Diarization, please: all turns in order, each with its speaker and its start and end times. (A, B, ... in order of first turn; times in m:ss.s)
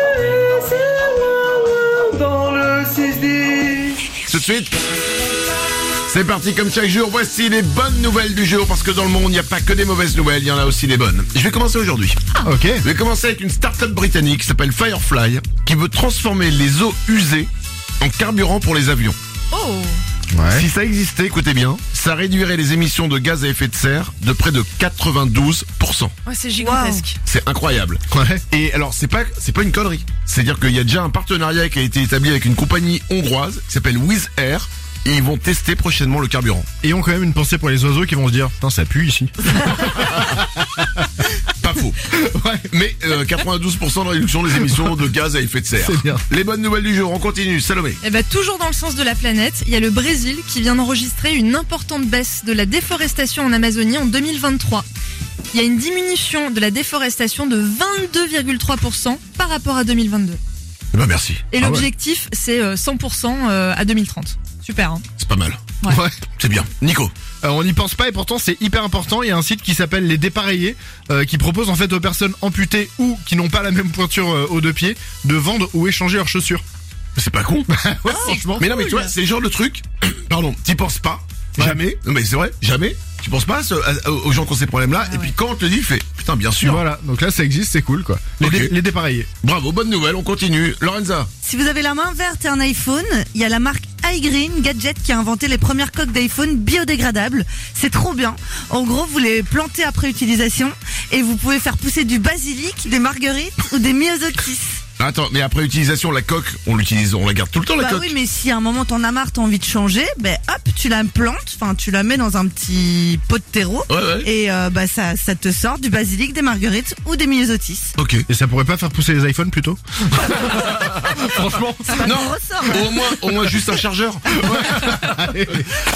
0:00.5-0:04.1 A
0:04.3-0:04.8 B
0:06.1-0:12.2 B
0:12.4-0:12.8 C
0:12.8-0:19.2 B
0:19.5-0:20.0 D
0:20.3-0:20.6 C
0:20.5-0:26.1 B
0:26.3-0:27.2 D
0:26.6-0:27.1 E
0:27.2-0:36.7 B
0:28.1-0:28.4 C
0:36.8-0:41.2 C
0:41.6-0:42.1 B
0:42.1-0:42.7 C
0:42.7-0:48.0 B
0:45.8-0:46.2 C
0:48.0-0:54.9 D
0:55.5-1:00.4 D
1:00.9-1:01.4 B
1:01.5-1:05.0 D
1:01.6-1:01.9 C
1:05.2-1:05.7 B
1:05.9-1:06.2 C
1:06.4-1:07.1 B
1:07.4-1:16.6 C
1:17.2-1:26.8 B
1:17.7-1:18.7 C
1:18.1-1:19.1 E
1:21.6-1:21.9 C
1:26.6-1:29.3 C
1:28.4-1:28.7 B
1:29.4-1:31.3 B
1:31.4-1:44.8 E
1:45.0-1:48.1 B
1:47.8-1:57.9 E
1:53.9-1:54.3 B
1:58.0-1:58.2 B
1:58.3-2:02.0 C
2:01.8-2:03.1 E
2:02.0-2:04.7 B
2:04.4-2:05.7 C